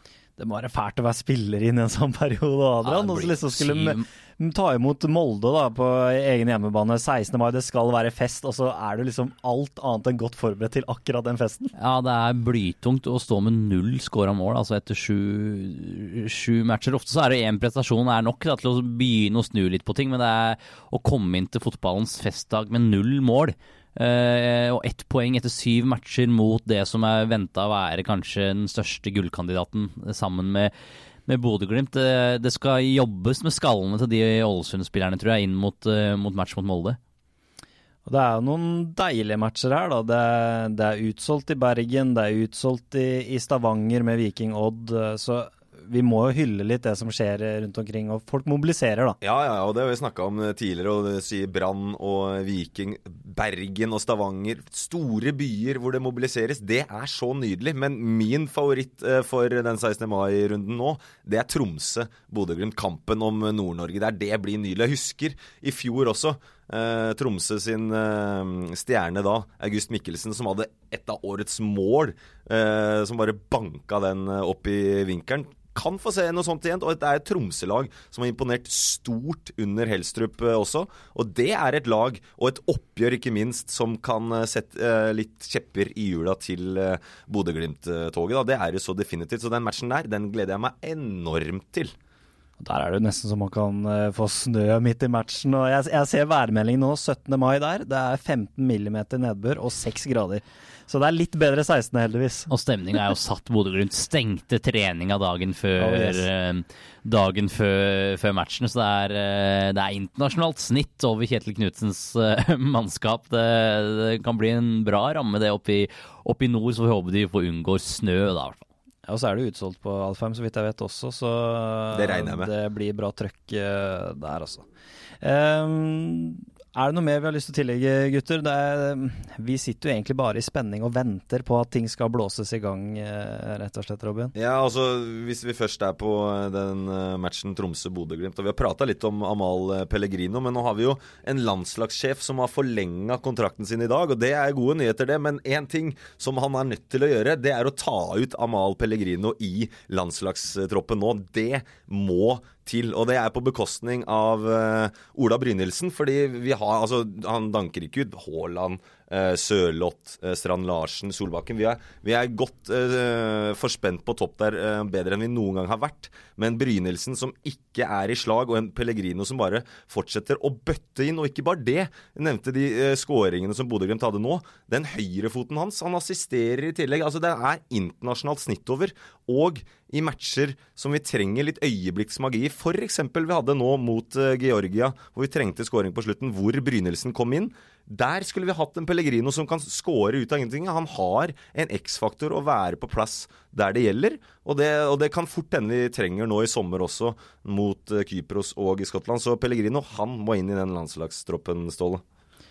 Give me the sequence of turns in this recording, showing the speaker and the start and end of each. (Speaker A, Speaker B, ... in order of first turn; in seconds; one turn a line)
Speaker A: 0.4-11.7
Speaker B: 2.8-4.0
Speaker B: 11.8-30.7
Speaker B: 31.3-37.0
Speaker A: 38.0-49.2
Speaker C: 49.2-91.9
Speaker A: 92.6-102.5
Speaker B: 102.5-118.6
Speaker A: 105.8-106.3
Speaker A: 119.0-124.7
Speaker C: 121.9-122.5
Speaker A: 125.2-134.3
Speaker C: 134.3-202.0